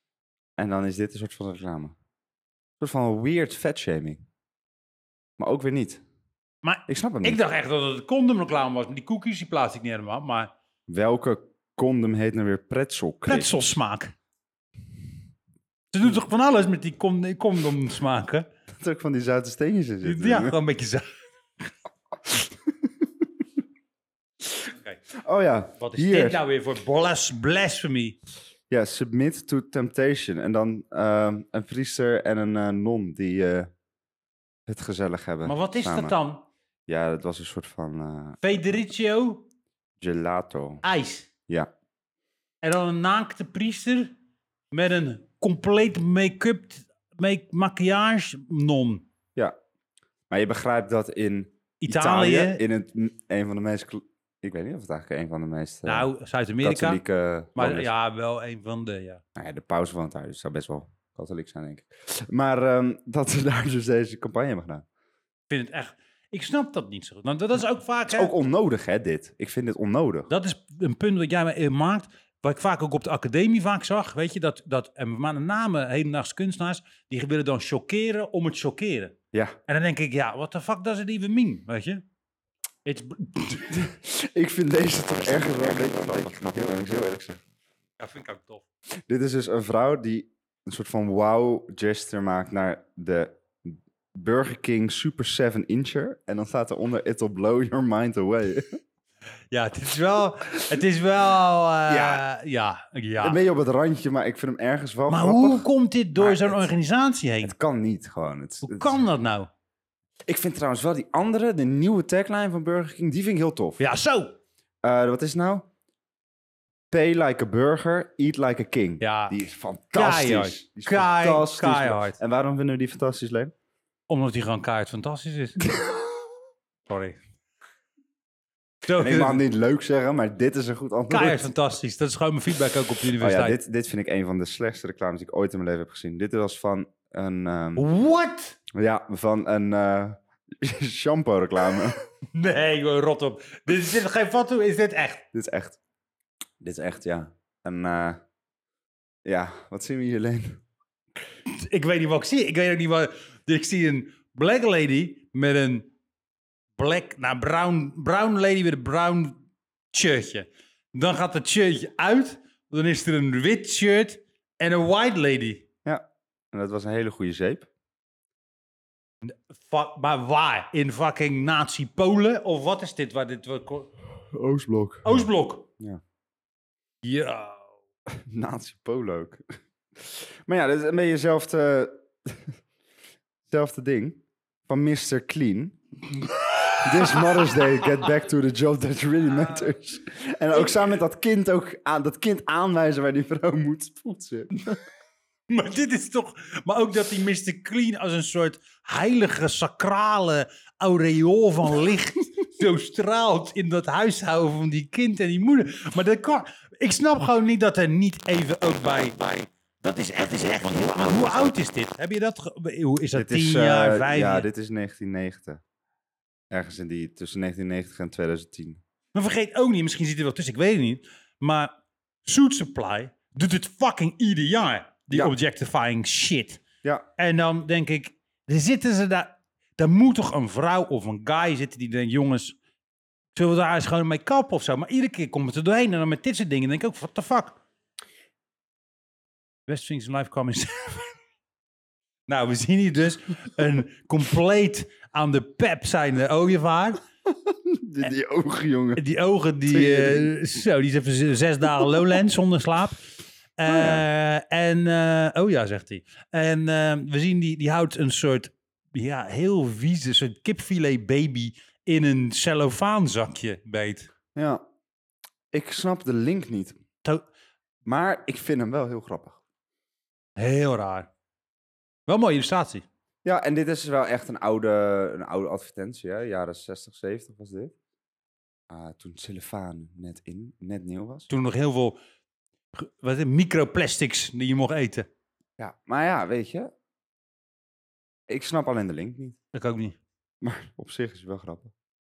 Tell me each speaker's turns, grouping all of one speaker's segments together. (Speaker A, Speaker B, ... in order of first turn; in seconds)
Speaker A: 0.6-1.9, 2.8-4.2, 5.4-6.0, 6.9-7.4, 10.9-13.6, 18.8-20.6, 22.2-23.1, 25.2-26.4, 28.7-33.7, 34.7-36.1, 36.9-38.7, 40.0-40.8, 50.3-56.1, 56.6-57.9, 59.4-64.8, 68.1-70.3, 83.6-87.4, 89.1-98.8, 101.9-102.2, 103.2-106.7, 107.4-109.0, 110.3-113.8, 114.8-115.7, 116.9-123.5, 125.7-126.0, 128.9-131.5, 133.2-137.8, 138.7-142.0, 145.3-145.8, 146.6-148.2, 149.2-150.6, 165.8-167.7, 174.3-175.3, 178.1-179.4, 180.0-182.6, 183.5-185.8, 186.8-194.8, 213.1-215.6, 216.5-218.8, 247.3-249.0, 249.7-250.3, 253.7-254.0, 264.3-264.6, 265.5-266.8, 267.8-269.4, 273.2-277.7, 278.7-281.3, 285.6-286.7, 288.3-289.4, 290.4-291.7
Speaker B: 6.6-10.5, 13.2-14.1, 15.9-18.5, 20.0-21.1, 24.7-25.0, 25.8-28.2, 35.4-36.4, 38.4-39.4, 40.8-41.3, 42.6-44.1, 44.7-49.0, 51.8-52.6, 55.8-57.0, 57.5-59.2, 65.5-68.3, 70.3-79.1, 79.7-82.0, 82.8-83.7, 88.0-88.6, 99.5-103.4, 105.1-107.5, 108.6-109.5, 113.8-114.3, 119.0-119.4, 119.9-122.2, 124.1-125.7, 126.9-127.2, 128.8-129.4, 131.1-133.6, 137.8-138.6, 142.3-145.2, 151.5-155.9, 156.8-159.4, 159.9-165.6, 169.2-173.9, 175.0-175.7, 177.0-177.7, 186.2-188.1, 195.5-214.5, 219.1-221.7, 222.2-226.6, 227.2-232.6, 233.3-237.6, 239.7-241.2, 242.3-247.0, 248.9-253.0, 253.6-264.1, 270.4-271.1, 272.1-272.8, 281.3-282.0, 282.7-285.1, 289.5-290.0